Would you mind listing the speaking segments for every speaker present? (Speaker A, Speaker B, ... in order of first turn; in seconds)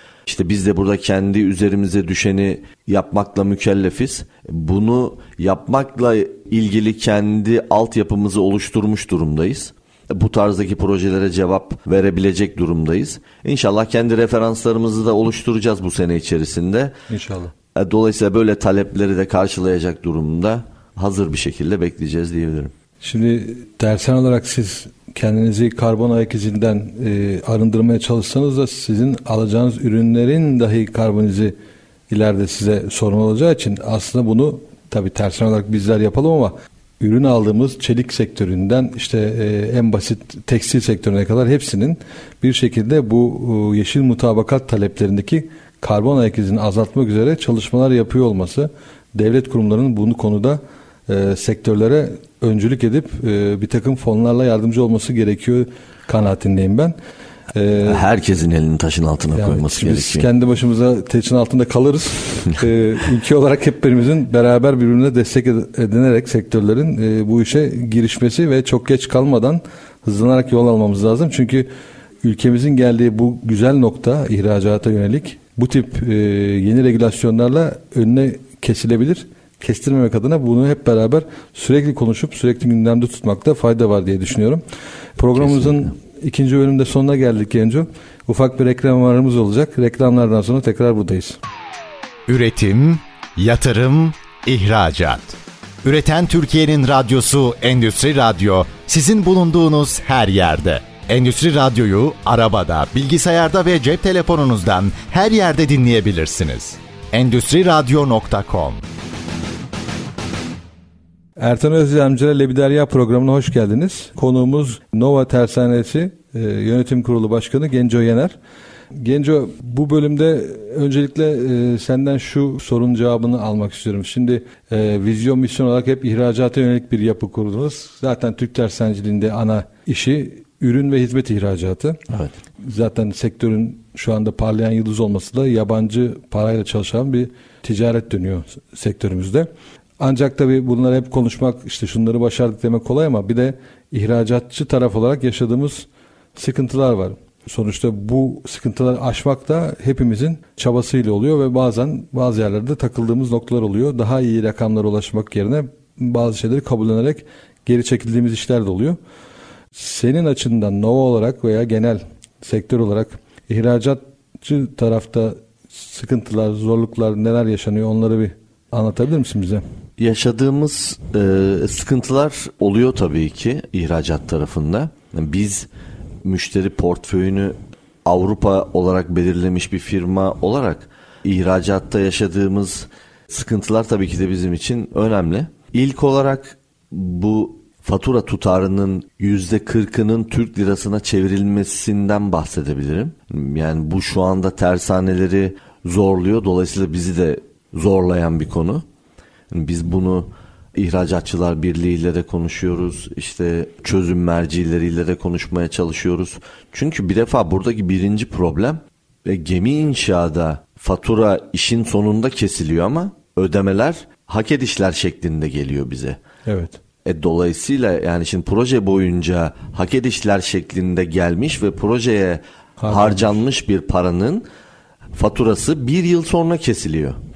Speaker A: 0.2-16.9, 17.7-22.7, 57.8-60.3, 85.4-85.8, 170.0-175.7, 176.2-198.8, 199.5-216.2, 217.0-224.4, 225.1-227.2
Speaker B: 17.1-17.5, 23.0-31.5, 32.1-56.9, 57.5-58.1, 59.3-71.7, 72.2-84.6, 85.2-91.4, 111.4-118.3, 119.0-132.0, 132.6-159.0, 159.7-169.6, 216.4-216.8, 222.8-223.4
Speaker C: 92.3-108.8